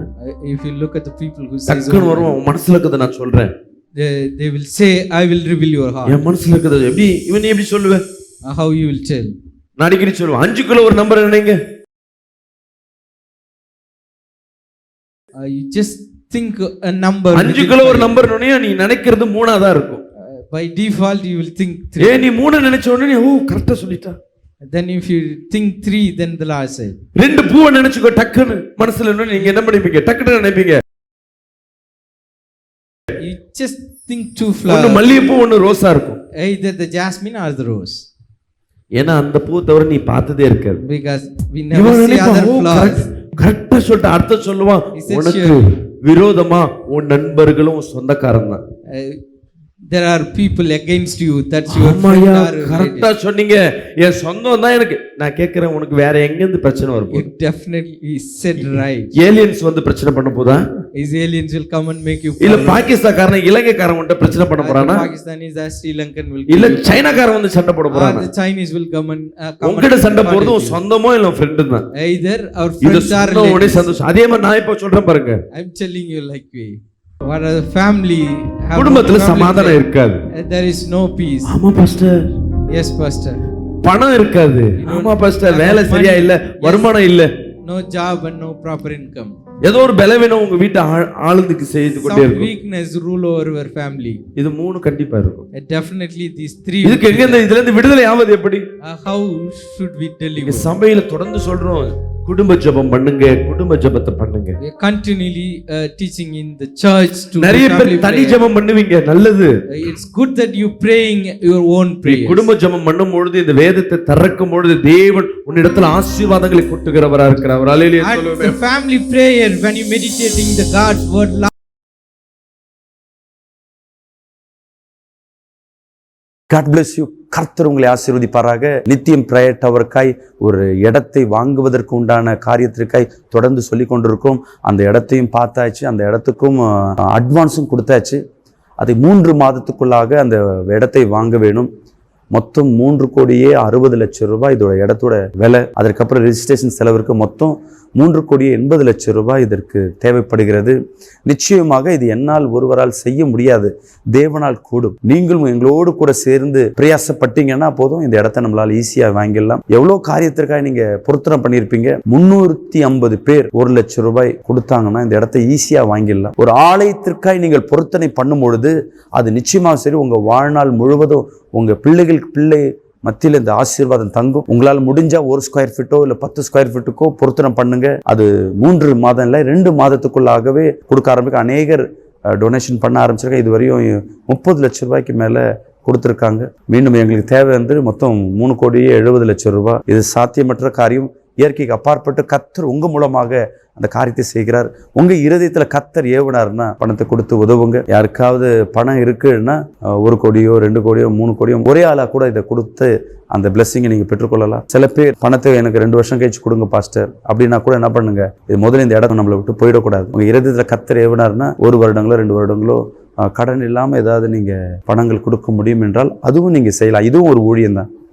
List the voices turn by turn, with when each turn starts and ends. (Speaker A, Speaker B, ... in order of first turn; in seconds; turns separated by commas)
Speaker A: 0.2-2.3, Speaker B: 1.7-3.5, Speaker A: 4.0-6.2, Speaker B: 6.1-8.0, Speaker A: 8.4-9.3, Speaker B: 9.8-11.6, Speaker A: 15.4-18.2, Speaker B: 17.3-20.0, Speaker A: 20.2-22.2, Speaker B: 22.0-24.1, Speaker A: 24.6-27.0, Speaker B: 27.1-30.8, Speaker A: 33.2-35.0, Speaker B: 34.7-36.2, Speaker A: 36.4-38.0, Speaker B: 39.0-40.8, Speaker A: 40.8-43.0, Speaker B: 41.7-48.6, Speaker A: 44.9-45.6, Speaker A: 48.9-49.2, Speaker A: 49.9-53.1, Speaker B: 51.7-57.3, Speaker A: 57.1-59.1, Speaker B: 59.1-60.6, Speaker A: 60.9-62.8, Speaker B: 62.4-65.1, Speaker A: 64.6-67.0, Speaker B: 66.5-68.2, Speaker A: 67.9-70.8, Speaker B: 69.6-71.8, Speaker A: 71.9-73.9, Speaker B: 72.8-75.4, Speaker A: 75.5-79.8, Speaker B: 78.8-80.2, Speaker A: 80.3-81.5, Speaker B: 81.5-82.3, Speaker A: 82.7-83.4, Speaker B: 83.8-87.3, Speaker A: 84.8-86.9, Speaker A: 87.6-89.4, Speaker B: 89.6-92.5, Speaker A: 92.0-94.2, Speaker B: 94.4-95.4, Speaker A: 95.5-97.4, Speaker B: 96.8-98.6, Speaker A: 98.8-100.7, Speaker B: 100.4-104.5, Speaker A: 104.6-108.4, Speaker B: 107.4-109.5, Speaker A: 109.7-112.5, Speaker B: 112.0-118.6, Speaker A: 118.0-121.5, Speaker C: 126.5-138.2, Speaker C: 138.8-141.7, Speaker C: 142.3-217.9